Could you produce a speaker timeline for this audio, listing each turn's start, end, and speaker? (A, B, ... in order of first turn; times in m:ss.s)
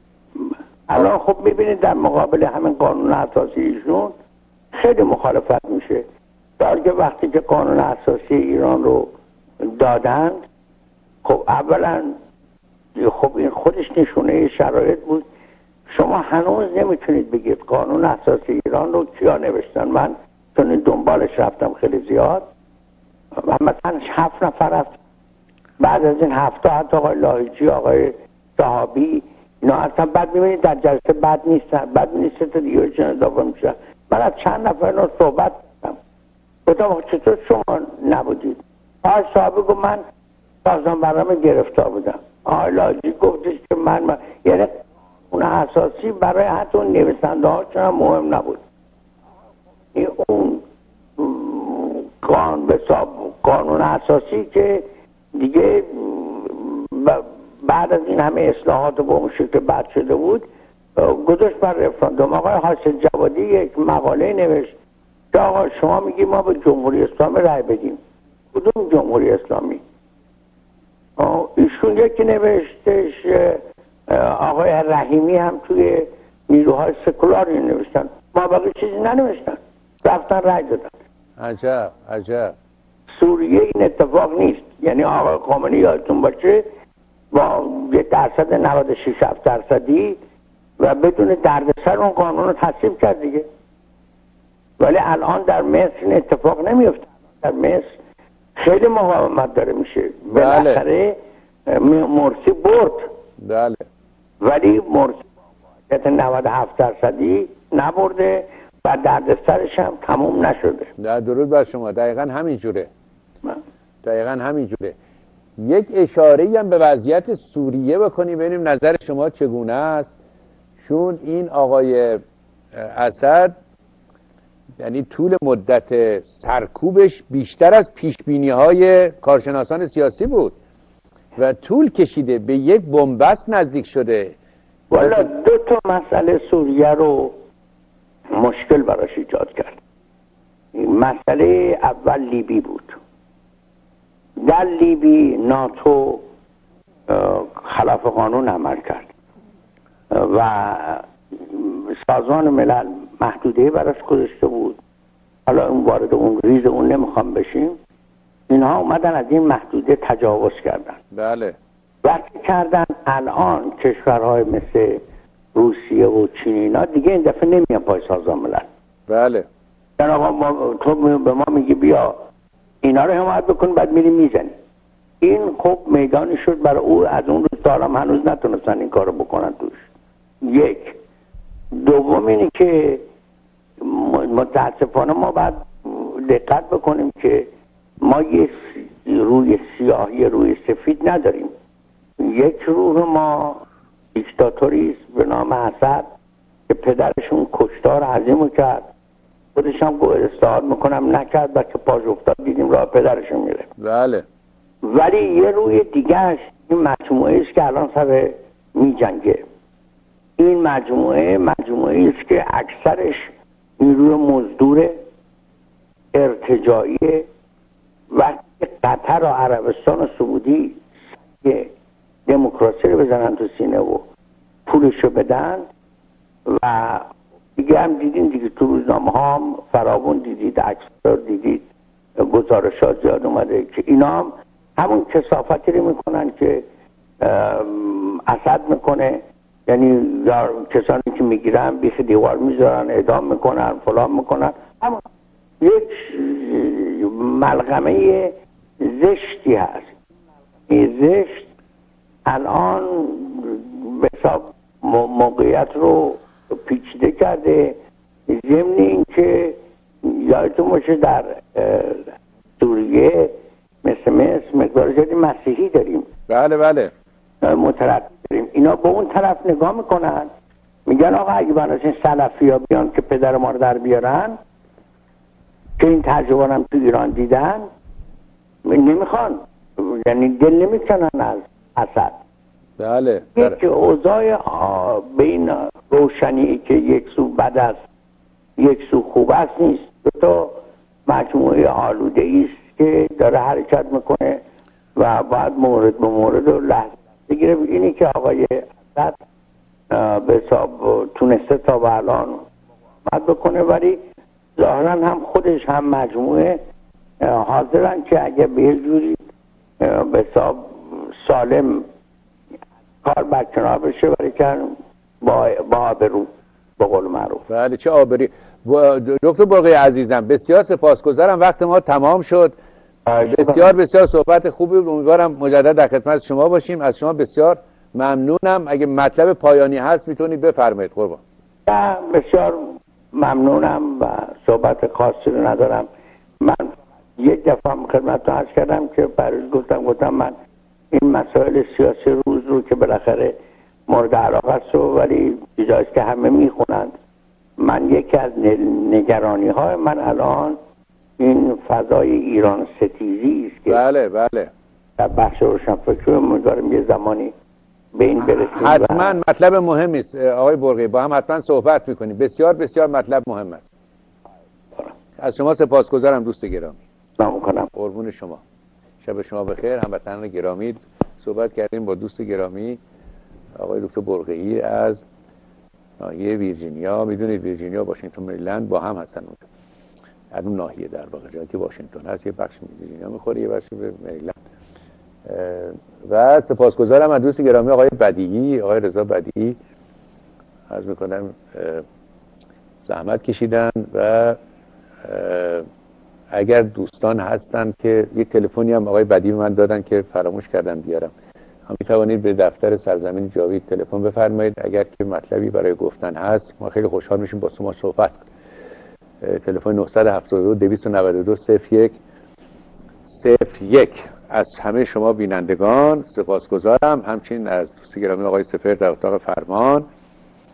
0:00.4-0:04.1 A
0:04.7-0:06.0 A
0:06.6-0:09.1 A
0:09.6-0:10.4 A
0:11.2-0:12.1 A
0:12.9-0:15.2 A
0:15.9-0:22.4 A
0:23.4-0:25.0 A
0:25.8-0:36.0 A
0:36.6-0:40.0 A
0:40.6-0:44.7 A
0:45.3-0:48.6 A
0:49.9-0:50.6 A
0:51.2-1:00.4 A
1:01.0-1:04.7 A
1:05.3-1:08.0 A
1:08.5-1:09.8 A
1:11.2-1:20.9 A
1:21.4-1:22.5 B
1:23.1-1:26.6 A
1:27.3-1:30.2 A
1:30.8-1:33.4 A
1:34.8-1:37.9 A
1:38.6-1:41.1 A
1:40.3-1:40.8 B
1:41.7-1:43.1 A
1:43.4-1:43.8 B
1:44.4-1:45.2 A
1:45.9-1:50.9 A
1:51.0-1:52.9 B
1:54.0-1:55.0 B
1:55.6-2:00.1 B
2:00.8-2:02.2 B
2:02.7-2:03.5 B
2:04.8-2:10.5 B
2:11.4-2:14.3 B
2:14.9-2:17.3 A
2:15.0-2:15.3 B
2:18.3-2:19.8 A
2:20.7-2:23.0 A
2:24.4-2:26.2 A
2:27.1-2:29.1 A
2:30.1-2:34.8 A
2:35.4-2:37.8 A
2:38.5-2:41.0 A
2:41.1-2:41.6 B
2:42.0-2:45.0 A
2:45.5-2:48.7 A
2:49.1-2:49.4 B
2:50.0-2:52.2 A
2:52.8-2:54.5 A
2:55.2-2:59.9 A
3:00.4-3:01.0 A
3:01.7-3:03.0 A
3:03.8-3:07.5 A
3:08.0-3:11.5 A
3:12.2-3:13.6 A
3:14.1-3:16.0 A
3:16.7-3:18.8 A
3:19.5-3:23.7 A
3:23.8-3:24.2 B
3:24.8-3:29.4 A
3:30.4-3:34.9 A
3:36.1-3:37.3 A
3:38.1-3:40.9 A
3:41.4-3:41.7 A
3:42.3-3:44.0 A
3:44.6-3:45.6 A
3:46.4-3:51.6 A
3:52.2-3:56.6 A
3:57.2-4:05.0 A
4:05.6-4:09.9 A
4:10.7-4:11.5 A
4:12.2-4:17.8 A
4:18.3-4:23.3 A
4:23.8-4:26.1 A
4:26.3-4:26.9 B
4:27.4-4:30.3 A
4:30.9-4:34.3 A
4:35.8-4:37.6 A
4:38.6-4:42.2 A
4:42.8-4:43.6 B
4:43.4-4:47.8 A
4:48.6-4:54.4 A
4:55.0-4:59.2 A
4:59.9-5:02.4 A
5:03.0-5:04.0 A
5:04.6-5:06.6 A
5:07.2-5:09.2 A
5:09.8-5:11.8 A
5:13.0-5:17.4 A
5:17.5-5:22.5 B
5:23.0-5:23.7 A
5:23.2-5:31.2 B
5:31.6-5:35.9 A
5:36.4-5:40.3 A
5:40.9-5:43.3 A
5:43.9-5:46.9 A
5:47.6-5:50.6 A
5:51.2-5:53.8 A
5:53.7-5:54.5 B
5:55.0-5:57.3 A
5:57.9-5:59.1 A
5:58.2-6:03.6 B
6:05.2-6:06.8 B
6:07.2-6:07.7 A
6:07.7-6:08.4 B
6:09.0-6:12.8 B
6:13.6-6:15.0 B
6:16.0-6:19.4 B
6:20.3-6:24.4 B
6:25.2-6:29.6 B
6:30.7-6:31.8 B
6:32.8-6:34.4 B
6:35.0-6:35.6 B
6:36.3-6:41.1 B
6:41.7-6:48.2 B
6:49.2-6:52.0 B
6:53.1-6:59.8 B